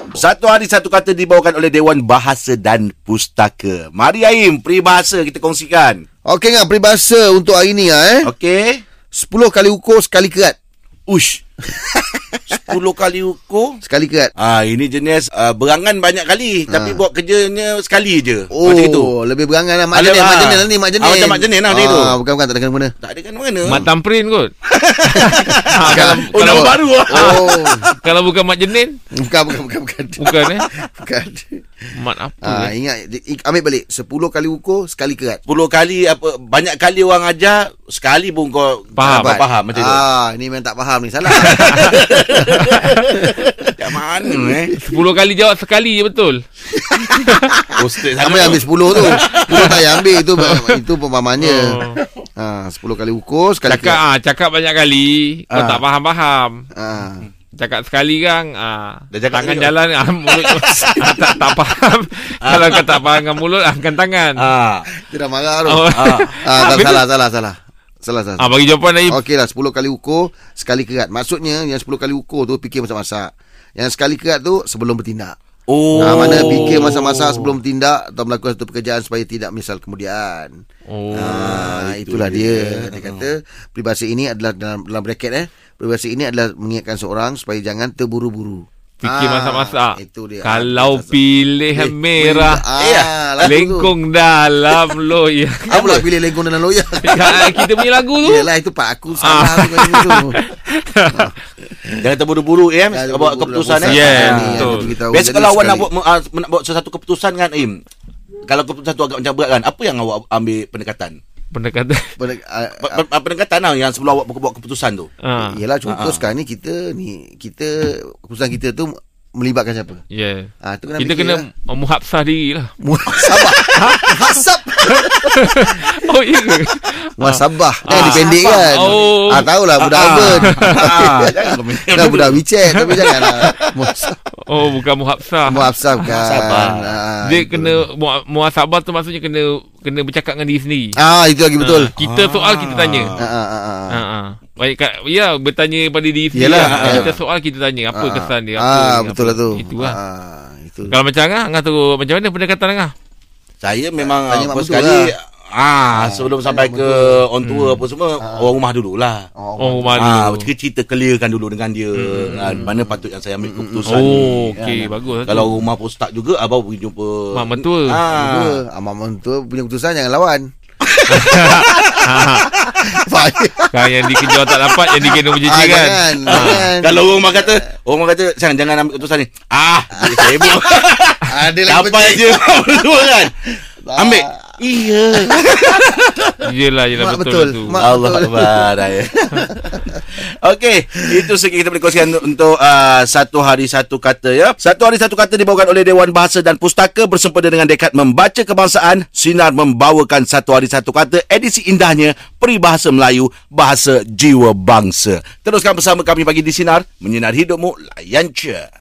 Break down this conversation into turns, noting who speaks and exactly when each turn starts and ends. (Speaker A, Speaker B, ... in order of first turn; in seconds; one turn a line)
Speaker A: 0.1-6.0
Speaker B: 6.2-8.3
Speaker A: 8.2-8.8
Speaker B: 9.1-10.6
Speaker A: 11.1-11.4
Speaker B: 11.7-12.4
Speaker A: 12.5-13.8
Speaker B: 13.8-14.3
Speaker A: 14.4-19.1
Speaker B: 16.7-17.0
Speaker B: 18.5-22.9
Speaker A: 19.9-22.1
Speaker A: 23.0-23.9
Speaker C: 23.6-24.5
Speaker A: 24.7-27.9
Speaker C: 25.1-29.0
Speaker B: 25.3-27.9
Speaker B: 29.2-31.6
Speaker C: 30.2-30.6
Speaker C: 31.9-32.7
Speaker B: 32.4-35.4
Speaker A: 35.5-40.0
Speaker C: 39.0-39.4
Speaker B: 39.0-43.7
Speaker A: 41.4-44.7
Speaker C: 41.5-41.9
Speaker B: 44.2-45.0
Speaker C: 44.8-46.4
Speaker B: 46.7-54.0
Speaker C: 47.1-47.5
Speaker A: 47.8-50.2
Speaker C: 49.0-49.7
Speaker C: 51.4-52.0
Speaker C: 53.6-56.6
Speaker B: 55.5-55.8
Speaker B: 56.8-57.3
Speaker C: 57.5-64.4
Speaker A: 59.1-59.7
Speaker A: 60.4-61.1
Speaker A: 62.4-63.2
Speaker A: 64.4-64.9
Speaker B: 64.9-68.5
Speaker C: 65.7-67.0
Speaker A: 65.9-66.3
Speaker C: 68.4-69.2
Speaker B: 69.1-75.3
Speaker A: 75.7-77.1
Speaker C: 75.9-77.1
Speaker B: 76.0-80.6
Speaker C: 80.9-81.4
Speaker A: 81.1-83.3
Speaker B: 81.1-91.2
Speaker C: 89.0-92.6
Speaker B: 92.2-93.9
Speaker A: 92.8-93.1
Speaker C: 93.4-96.0
Speaker B: 95.7-100.4
Speaker A: 95.7-96.0
Speaker C: 97.0-98.5
Speaker C: 99.2-101.3
Speaker B: 101.1-102.0
Speaker A: 102.0-107.8
Speaker B: 102.9-105.9
Speaker C: 103.8-104.9
Speaker A: 108.5-111.2
Speaker C: 111.5-112.1
Speaker B: 112.2-113.0
Speaker A: 112.8-115.1
Speaker C: 115.2-115.6
Speaker B: 115.4-120.0
Speaker A: 115.9-116.2
Speaker C: 120.1-122.7
Speaker B: 120.6-121.5
Speaker B: 122.8-125.9
Speaker C: 123.3-124.2
Speaker C: 124.8-129.5
Speaker B: 127.2-134.2
Speaker A: 127.9-129.0
Speaker A: 129.8-132.4
Speaker C: 130.3-130.6
Speaker C: 132.8-133.7
Speaker C: 134.4-136.1
Speaker B: 135.5-137.8
Speaker A: 136.1-137.0
Speaker C: 137.2-140.9
Speaker B: 141.0-141.9
Speaker C: 141.6-143.1
Speaker A: 142.0-143.2
Speaker B: 143.2-144.0
Speaker C: 143.9-150.0
Speaker B: 146.3-147.1
Speaker A: 146.5-147.1
Speaker B: 147.9-150.9
Speaker C: 150.9-152.9
Speaker A: 153.6-159.3
Speaker B: 154.0-155.1
Speaker B: 155.9-157.2
Speaker C: 157.4-157.8
Speaker B: 158.2-158.5
Speaker B: 159.3-160.0
Speaker C: 159.6-160.5
Speaker A: 160.0-164.7
Speaker C: 161.9-162.7
Speaker B: 162.2-165.5
Speaker C: 163.9-165.5
Speaker A: 165.2-168.6
Speaker C: 167.3-168.0
Speaker B: 168.1-170.5
Speaker C: 171.1-172.5
Speaker B: 171.1-173.7
Speaker C: 173.7-176.7
Speaker B: 175.4-177.6
Speaker A: 176.2-183.3
Speaker B: 180.0-180.6
Speaker B: 181.2-182.8
Speaker B: 183.8-184.6
Speaker A: 184.0-186.3
Speaker B: 185.1-185.5
Speaker C: 186.4-187.8
Speaker B: 186.9-188.7
Speaker A: 187.8-189.4
Speaker B: 189.3-190.0
Speaker A: 190.2-208.7